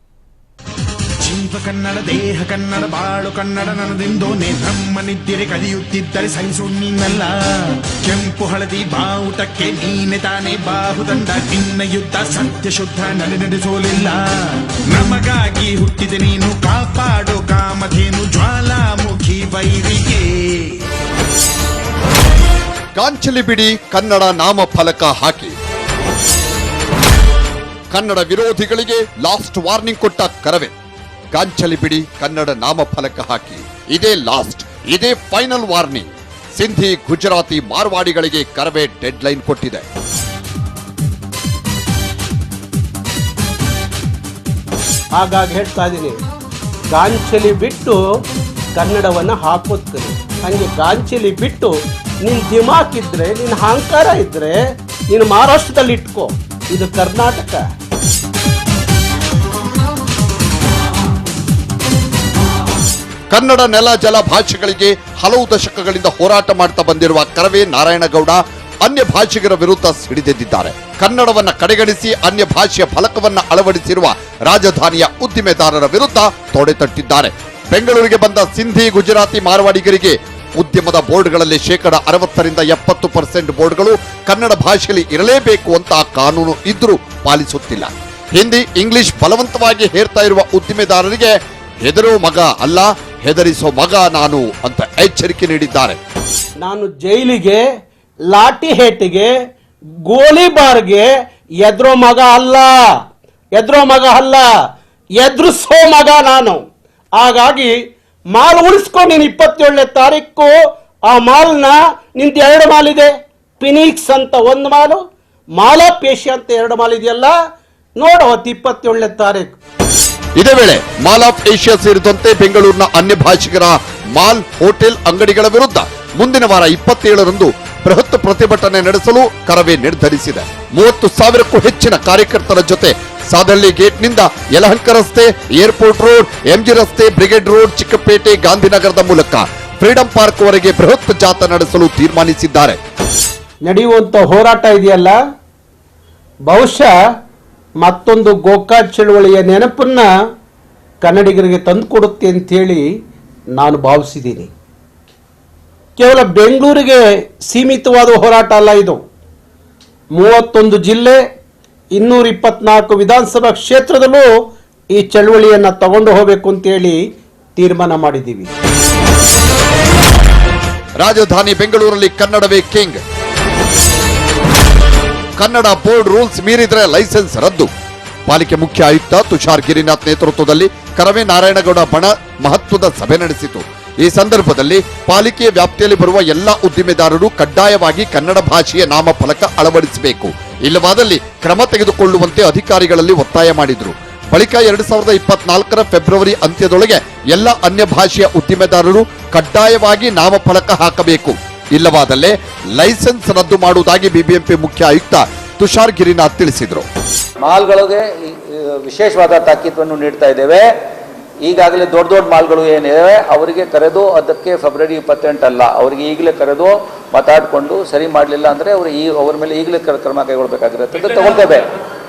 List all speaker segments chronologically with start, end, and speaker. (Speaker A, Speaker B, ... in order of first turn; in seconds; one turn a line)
Speaker A: 1.2-20.8
Speaker B: 23.0-25.5
Speaker B: 27.9-30.7
Speaker B: 31.3-39.8
Speaker C: 45.1-46.2
Speaker C: 46.9-48.0
Speaker C: 48.7-57.6
Speaker B: 63.3-96.0
Speaker C: 96.6-97.6
Speaker C: 98.3-99.3
Speaker C: 100.0-101.1
Speaker C: 101.6-102.8
Speaker C: 103.5-104.5
Speaker C: 105.2-106.6
Speaker C: 107.1-107.7
Speaker C: 108.3-110.5
Speaker C: 111.0-115.0
Speaker C: 115.5-117.3
Speaker C: 118.0-119.6
Speaker B: 120.4-142.8
Speaker C: 143.6-145.2
Speaker C: 146.4-146.9
Speaker C: 147.8-150.1
Speaker C: 151.0-152.8
Speaker C: 153.5-154.5
Speaker C: 156.0-159.0
Speaker C: 160.1-161.2
Speaker C: 161.9-164.3
Speaker C: 164.9-167.0
Speaker C: 167.6-168.5
Speaker B: 171.0-173.0
Speaker B: 175.4-177.7
Speaker B: 178.3-206.9
Speaker D: 207.4-210.7
Speaker D: 211.4-221.7